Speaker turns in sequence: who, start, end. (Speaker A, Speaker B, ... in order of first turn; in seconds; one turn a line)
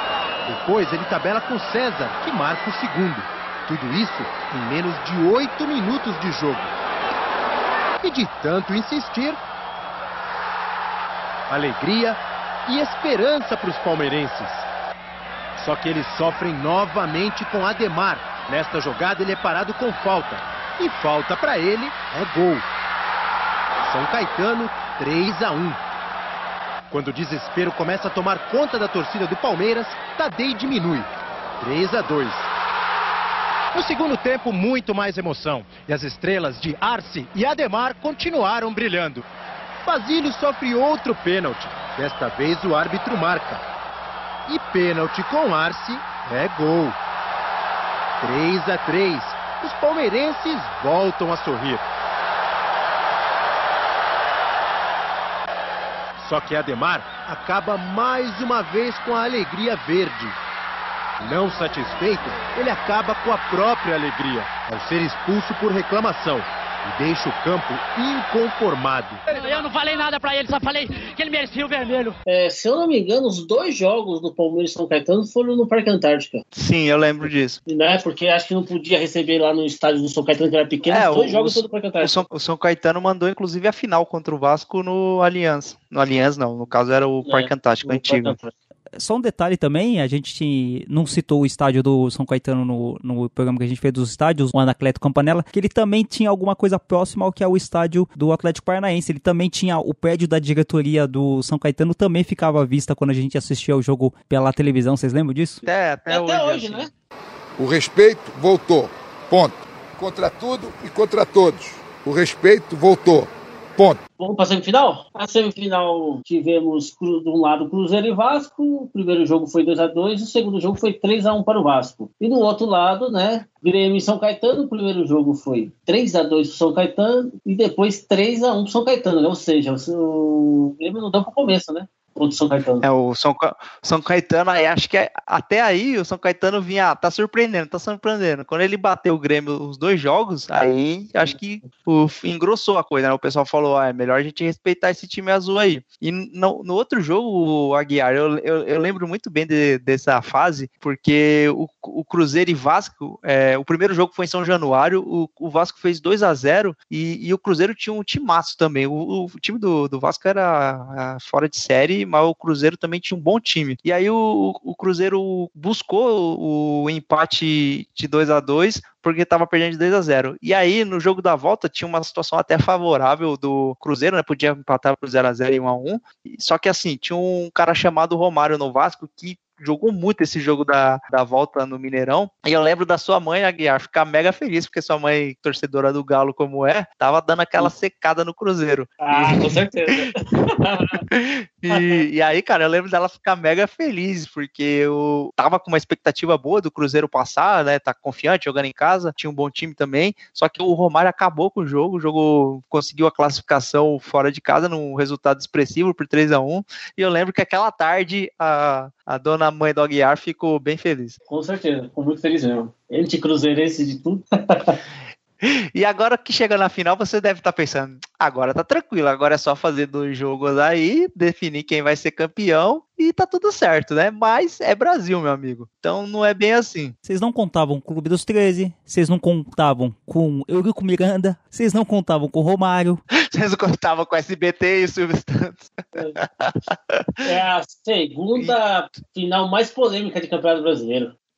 Speaker A: 0.5-6.7
Speaker A: 8.0-9.4
Speaker A: 11.5-14.7
Speaker A: 15.6-22.7
Speaker A: 23.8-25.8
Speaker A: 26.9-32.5
Speaker A: 33.7-39.2
Speaker A: 39.8-43.6
Speaker A: 44.5-47.0
Speaker A: 48.2-51.8
Speaker A: 56.2-60.4
Speaker A: 61.2-69.2
Speaker B: 69.3-72.2
Speaker C: 72.2-76.4
Speaker D: 76.5-77.6
Speaker C: 77.7-82.2
Speaker D: 80.9-88.3
Speaker C: 87.2-88.5
Speaker E: 89.0-105.6
Speaker D: 105.6-106.9
Speaker C: 106.1-106.9
Speaker F: 107.6-114.0
Speaker C: 114.2-132.8
Speaker D: 132.8-189.6
Speaker C: 189.0-191.0
Speaker D: 191.1-211.2
Speaker C: 191.7-192.0
Speaker C: 211.3-214.8
Speaker D: 215.4-226.9
Speaker E: 227.0-233.0
Speaker D: 233.2-237.2
Speaker C: 237.2-241.1